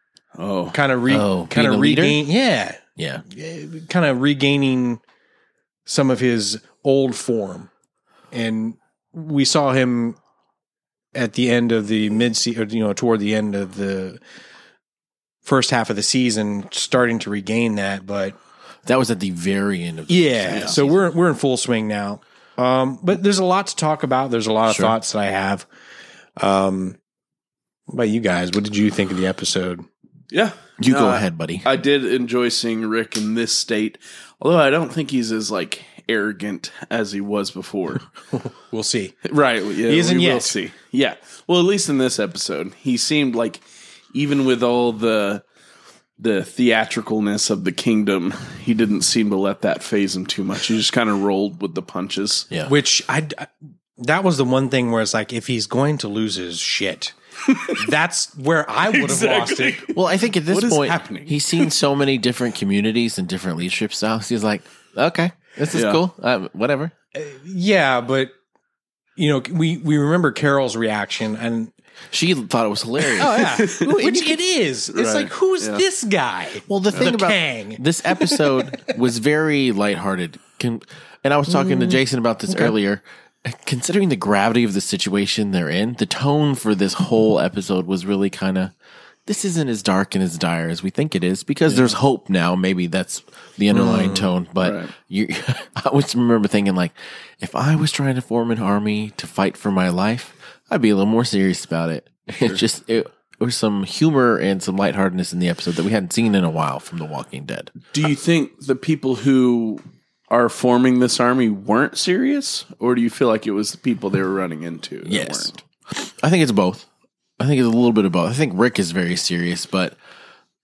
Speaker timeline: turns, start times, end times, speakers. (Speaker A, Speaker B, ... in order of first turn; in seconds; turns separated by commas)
Speaker A: 0.3-0.8, Speaker B: 0.7-5.0, Speaker C: 1.1-2.2, Speaker C: 3.0-3.2, Speaker B: 5.8-7.7, Speaker B: 8.3-10.2, Speaker B: 11.1-14.2, Speaker B: 15.4-18.4, Speaker C: 18.8-21.1, Speaker B: 20.1-25.6, Speaker C: 24.7-24.9, Speaker B: 26.4-27.0, Speaker B: 27.9-29.8, Speaker A: 30.3-38.0, Speaker C: 30.8-31.7, Speaker B: 38.4-39.1, Speaker A: 39.2-43.6, Speaker B: 39.9-40.6, Speaker A: 44.1-45.4, Speaker A: 46.2-52.5, Speaker B: 52.6-59.9, Speaker A: 58.8-61.7, Speaker C: 59.9-66.9, Speaker A: 65.7-66.0, Speaker B: 67.1-68.3, Speaker B: 69.2-71.7, Speaker C: 72.1-73.7, Speaker A: 73.1-74.3, Speaker B: 73.2-78.9, Speaker A: 74.9-75.8, Speaker C: 76.7-88.7, Speaker B: 81.5-81.9, Speaker B: 82.5-82.7, Speaker C: 89.2-107.7, Speaker B: 93.7-94.3, Speaker A: 94.6-94.9, Speaker A: 107.9-115.6, Speaker C: 115.0-116.9, Speaker C: 117.4-120.0